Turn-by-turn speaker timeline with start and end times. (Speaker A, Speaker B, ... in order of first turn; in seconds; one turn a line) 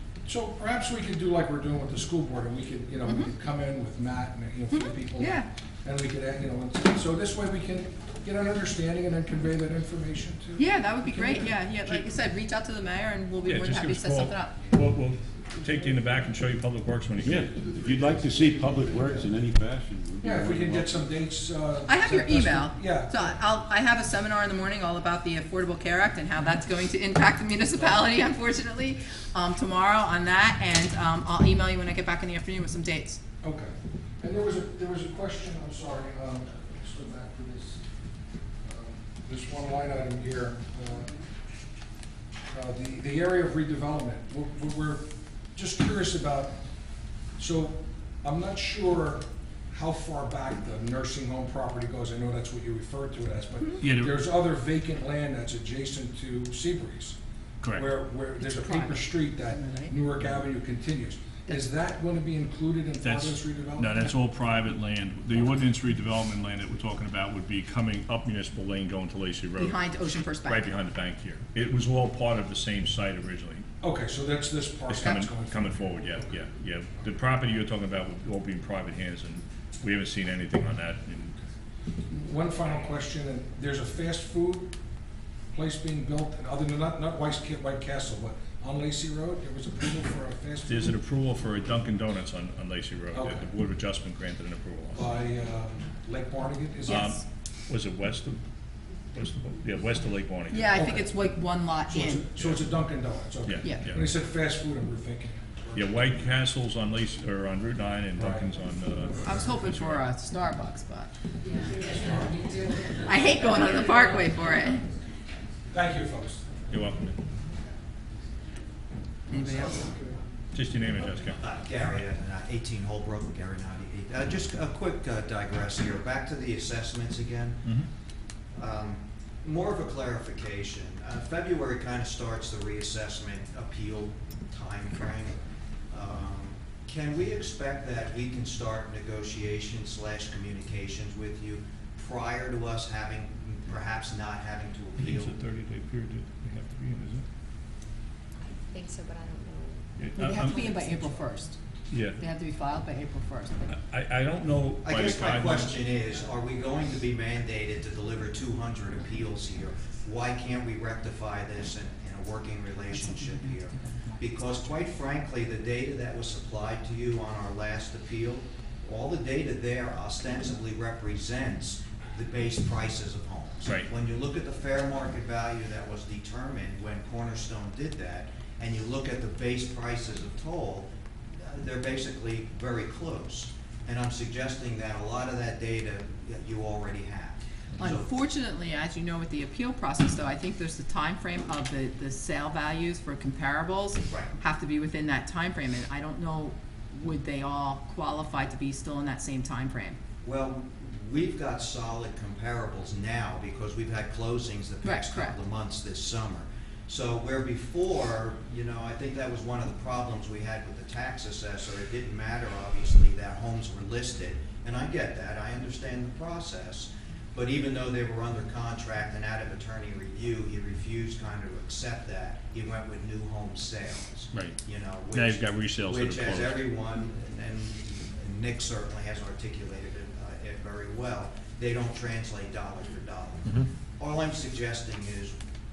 Speaker A: 0.2-12.0
Speaker B: 3.0-3.3
Speaker B: 4.7-5.5
Speaker B: 10.6-14.6
Speaker C: 13.4-17.5
Speaker D: 17.2-21.1
Speaker A: 20.2-23.3
Speaker B: 21.9-33.2
Speaker A: 33.4-37.8
Speaker A: 38.6-41.2
Speaker A: 42.5-46.5
Speaker A: 47.4-57.2
Speaker C: 53.8-54.2
Speaker C: 57.6-57.9
Speaker A: 57.7-64.0
Speaker B: 58.4-59.9
Speaker C: 63.0-69.9
Speaker B: 69.5-70.7
Speaker C: 70.4-73.7
Speaker A: 73.8-75.7
Speaker C: 74.9-81.3
Speaker A: 82.1-84.7
Speaker A: 85.5-90.9
Speaker C: 90.7-95.1
Speaker A: 93.1-93.5
Speaker A: 94.9-97.2
Speaker C: 96.8-98.4
Speaker B: 96.9-97.2
Speaker C: 99.1-100.8
Speaker B: 100.5-102.2
Speaker A: 100.7-101.1
Speaker A: 101.9-106.0
Speaker C: 103.4-104.1
Speaker C: 105.7-110.0
Speaker A: 108.2-108.5
Speaker B: 109.2-111.1
Speaker E: 111.5-113.0
Speaker B: 113.0-114.8
Speaker A: 115.7-116.4
Speaker C: 116.7-117.2
Speaker B: 119.3-119.9
Speaker A: 119.6-120.1
Speaker C: 120.5-121.4
Speaker F: 121.4-127.8
Speaker F: 128.5-135.4
Speaker F: 135.9-145.4
Speaker C: 145.0-147.2
Speaker E: 148.6-149.8
Speaker C: 150.0-150.7
Speaker B: 150.2-151.6
Speaker C: 151.9-152.2
Speaker B: 152.2-153.7
Speaker C: 153.7-155.8
Speaker F: 154.8-180.9
Speaker F: 181.4-188.1
Speaker B: 187.8-200.0
Speaker F: 194.1-194.3
Speaker F: 200.2-235.3
Speaker B: 204.8-205.4
Speaker C: 224.3-226.7